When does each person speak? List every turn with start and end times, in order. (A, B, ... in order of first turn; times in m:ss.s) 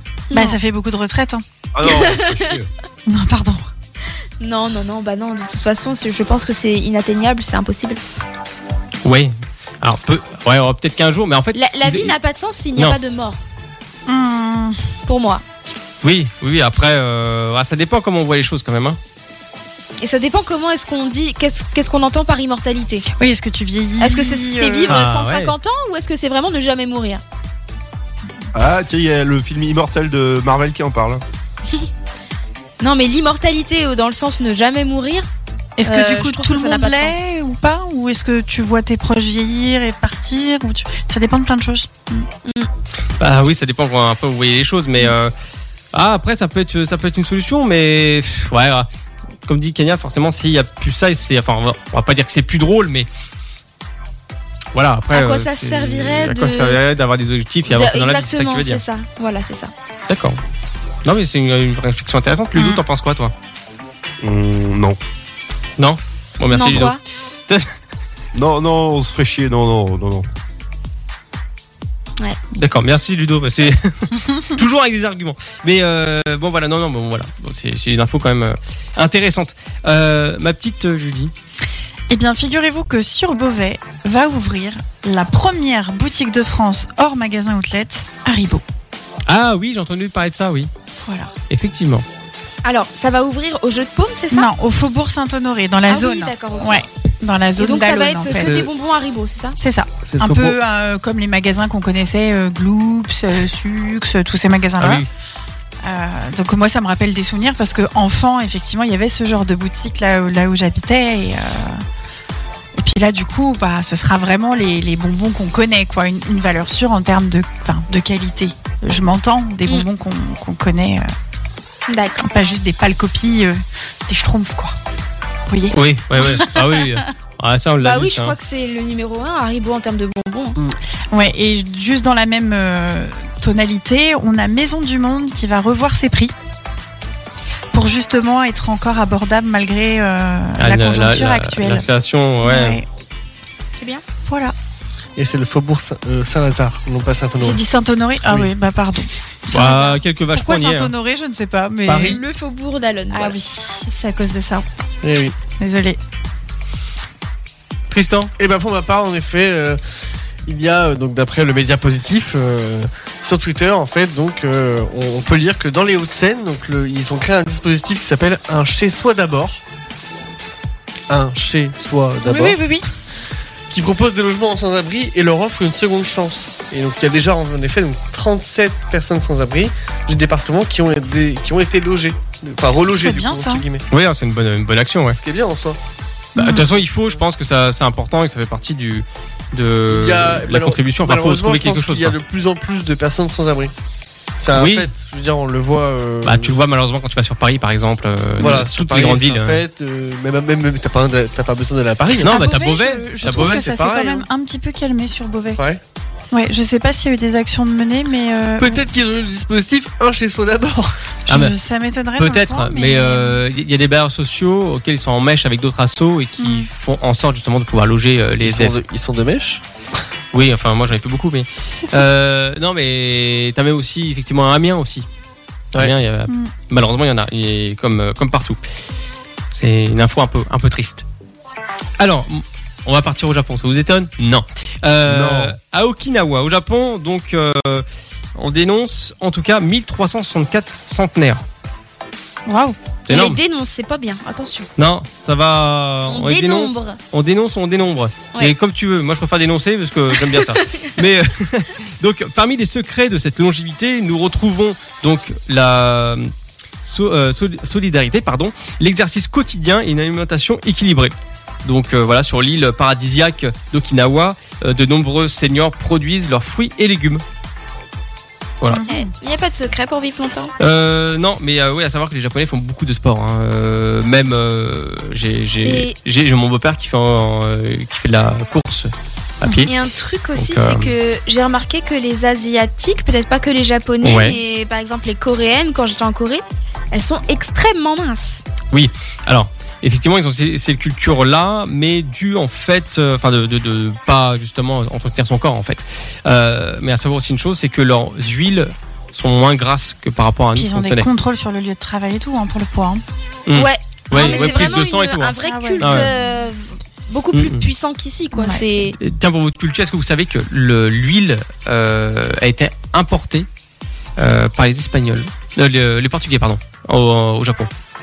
0:00.3-0:00.6 A
0:00.3-0:01.4 B
0:01.7-0:02.7 C
0:01.8-0:02.5 A
0:03.1-0:03.7 B
0:04.4-0:08.0 A
0:09.0-0:12.1 D
0:11.5-0:13.4 A
0:14.1-0:14.8 B
0:15.0-0:15.4 A
0:16.0-0:19.0 D
0:20.0-0:23.1 A
0:23.2-0:25.0 B
0:24.0-0:27.2 A
0:24.9-0:25.5 D
0:28.5-0:31.2 C
0:32.8-0:35.3 A
0:35.8-0:42.3 B
0:35.8-0:37.2 A
0:43.2-0:45.3 D
0:45.9-0:48.9 D
0:49.5-0:53.1 D
0:54.7-0:58.8 D
0:55.1-0:56.8 A
0:57.6-0:59.7 A
1:00.1-1:00.4 D
1:01.0-1:03.3 D
1:02.6-1:02.8 B
1:04.2-1:05.0 C
1:05.8-1:07.6 D
1:06.5-1:07.0 A
1:08.3-1:10.3 C
1:12.5-1:21.3 D
1:22.1-1:28.6 B
1:29.3-1:30.7 D
1:31.0-1:31.3 B
1:31.5-1:32.0 D
1:32.6-1:34.5 A
1:34.3-1:38.6 B
1:35.9-1:36.8 A
1:37.6-1:39.6 A
1:39.6-1:45.0 B
1:40.0-1:40.6 E
1:44.8-1:45.1 D
1:45.8-1:51.8 B
1:52.8-2:01.1 B
2:01.9-2:02.3 A
2:02.2-2:04.7 B
2:05.5-2:06.8 B
2:05.7-2:08.3 D
2:07.8-2:10.6 A
2:11.1-2:16.3 B
2:17.7-2:21.8 B
2:20.6-2:22.8 D
2:22.4-2:22.8 B
2:23.8-2:24.0 A
2:24.2-2:24.5 B
2:25.2-2:27.6 E
2:27.4-2:32.2 B
2:28.2-2:28.5 E
2:29.5-2:30.9 D
2:31.9-2:32.2 E
2:32.0-2:33.4 A
2:33.1-2:34.6 B
2:35.0-2:35.3 E
2:35.6-2:36.0 B
2:37.9-2:38.3 D
2:38.4-2:39.8 E
2:40.4-2:49.6 E
2:51.1-2:52.6 E
2:52.2-2:52.9 B
2:53.7-3:03.8 E
3:02.9-3:03.6 B
3:03.9-3:05.2 D
3:05.1-3:05.8 E
3:06.3-3:06.7 B
3:06.4-3:12.2 D
3:09.9-3:13.7 E
3:14.4-3:16.5 E
3:14.5-3:14.9 D
3:16.2-3:19.6 D
3:18.4-3:22.4 E
3:22.2-3:23.6 D
3:22.2-3:25.6 B
3:23.2-3:24.3 E
3:26.3-3:28.8 B
3:28.6-3:30.9 E
3:31.3-3:33.4 B
3:31.3-3:31.5 D
3:32.2-3:38.8 D
3:36.4-3:36.7 B
3:38.4-3:39.6 E
3:40.3-3:45.1 D
3:45.8-3:48.6 D
3:46.3-3:46.5 B
3:49.5-3:51.0 D
3:52.0-3:57.8 D
3:55.1-3:55.5 C
3:58.4-4:01.4 D
4:02.5-4:02.8 B
4:03.1-4:03.4 D
4:03.1-4:04.7 A
4:04.8-4:16.3 D
4:06.1-4:07.0 A
4:16.8-4:27.2 D
4:28.7-4:29.1 B
4:28.9-4:30.5 A
4:30.6-4:39.7 D
4:35.6-4:35.9 A
4:39.6-4:48.4 A
4:40.4-4:40.9 D
4:44.0-4:44.4 D
4:48.7-5:01.1 D
5:00.5-5:03.0 B
5:03.5-5:06.1 D
5:03.5-5:09.0 A
5:04.1-5:04.8 B
5:05.4-5:06.3 B
5:07.3-5:07.6 D
5:08.3-5:08.9 B
5:09.0-5:13.5 D
5:14.2-5:17.7 D